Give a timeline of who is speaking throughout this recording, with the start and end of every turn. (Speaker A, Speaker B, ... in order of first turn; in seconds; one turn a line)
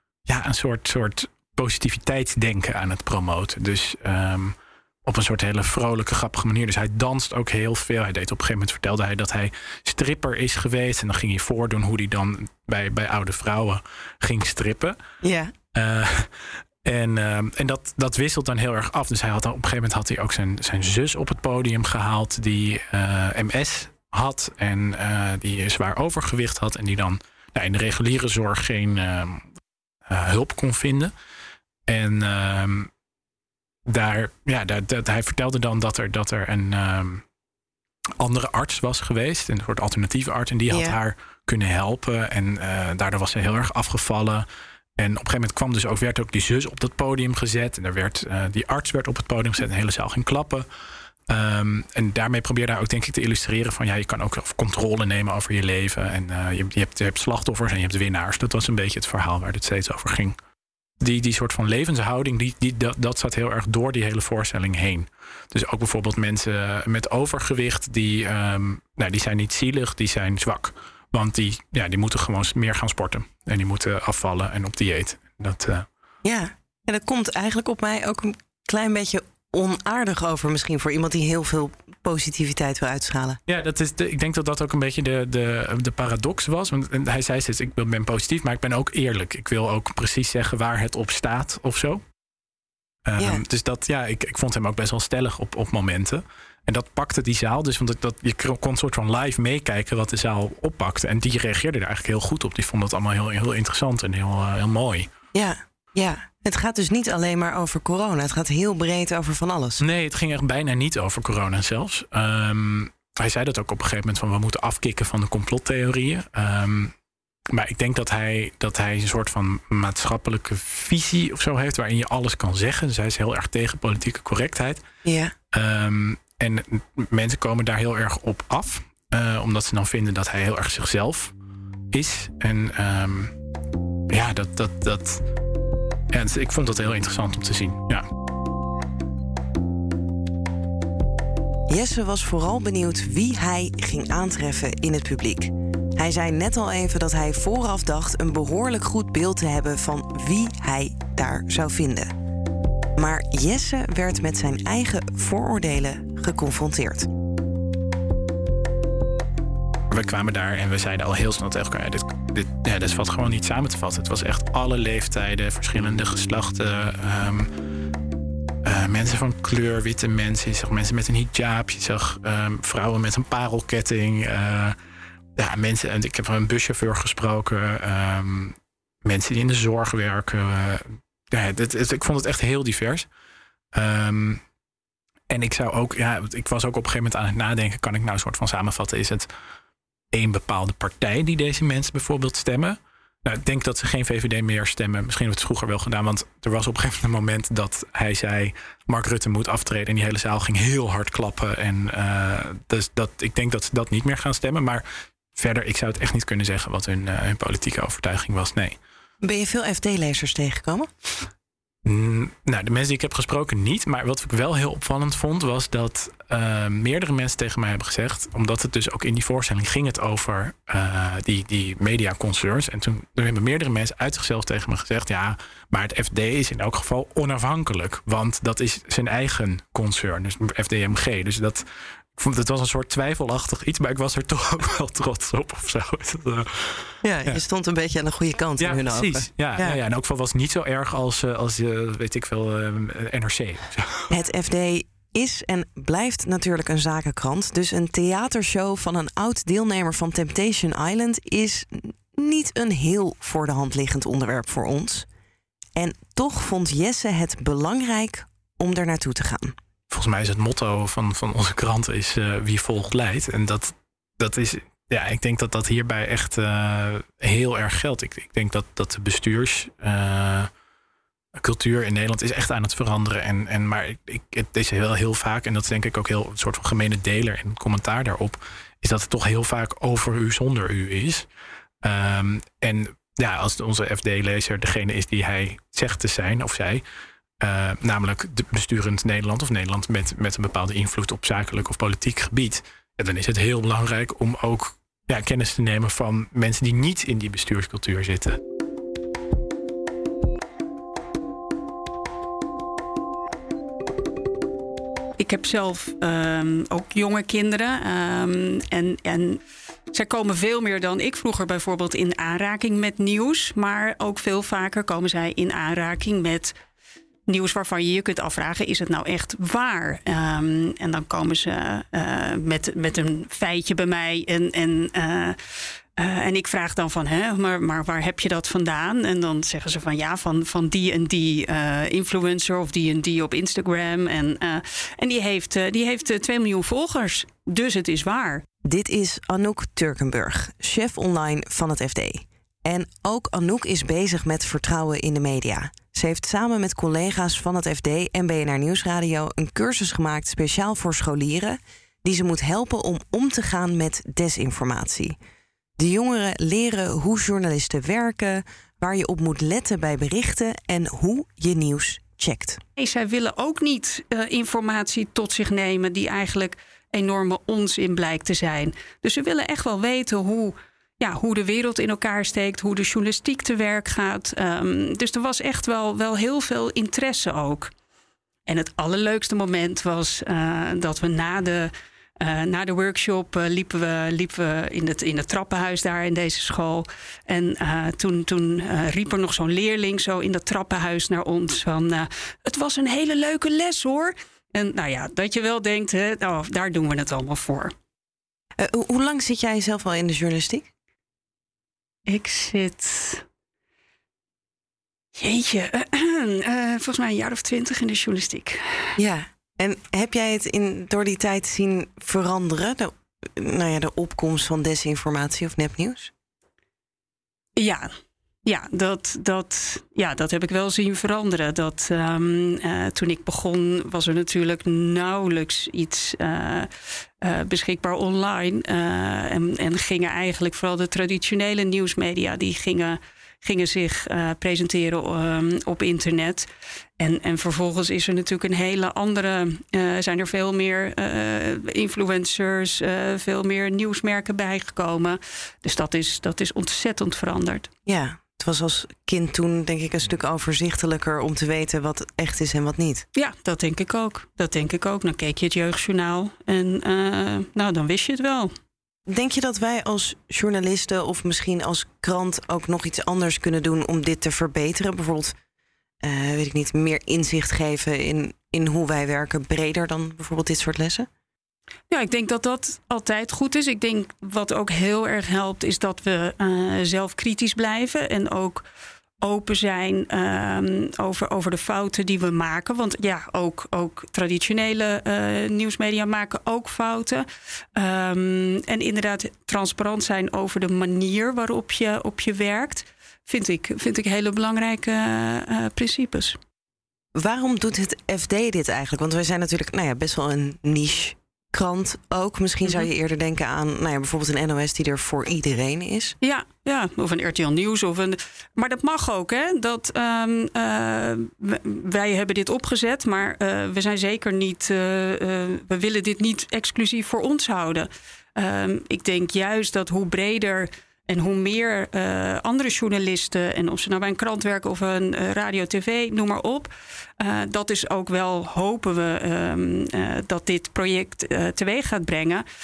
Speaker A: 0.3-15.0
Speaker B: 15.2-15.5
Speaker A: 15.7-29.5
Speaker A: 30.1-31.1
Speaker A: 31.9-32.9
Speaker A: 33.9-37.2
Speaker A: 38.2-44.5
Speaker B: 40.7-41.0
Speaker A: 45.0-50.7
Speaker A: 51.3-60.4
Speaker A: 61.0-75.9
Speaker B: 76.2-83.4
Speaker A: 83.5-92.0
Speaker A: 93.1-105.1
Speaker B: 105.3-109.8
Speaker A: 109.8-116.9
Speaker A: 117.5-124.8
Speaker B: 125.0-125.3
Speaker A: 125.5-131.3
Speaker A: 131.9-133.3
Speaker A: 134.1-135.2
Speaker A: 136.1-138.1
Speaker B: 141.7-152.1
Speaker B: 153.0-157.1
Speaker A: 159.9-167.5
Speaker A: 168.7-174.8
Speaker A: 175.4-183.1
Speaker A: 183.7-184.4
Speaker A: 185.3-189.3
Speaker A: 190.1-204.8
Speaker A: 205.3-208.8
Speaker B: 209.2-210.9
Speaker A: 211.8-237.4
Speaker B: 237.0-239.8
Speaker A: 238.6-244.1
Speaker B: 244.1-255.1
Speaker B: 255.8-259.6
Speaker A: 259.9-270.5
Speaker A: 271.4-281.3
Speaker A: 281.8-286.8
Speaker A: 287.4-298.4
Speaker C: 305.2-309.4
Speaker C: 309.9-316.6
Speaker C: 317.3-338.4
Speaker B: 338.6-355.2
Speaker B: 355.8-362.6
Speaker C: 362.8-377.7
Speaker C: 378.5-397.7
Speaker B: 398.6-400.7
Speaker C: 402.1-403.2
Speaker C: 405.1-408.9
Speaker B: 409.0-416.1
Speaker C: 417.6-417.9
Speaker C: 418.4-426.7
Speaker C: 427.2-436.5
Speaker C: 437.0-447.7
Speaker B: 447.9-453.1
Speaker C: 453.1-458.5
Speaker B: 459.1-465.4
Speaker B: 466.0-471.1
Speaker C: 471.9-478.6
Speaker C: 479.2-496.4
Speaker B: 497.1-506.1
Speaker C: 506.2-532.5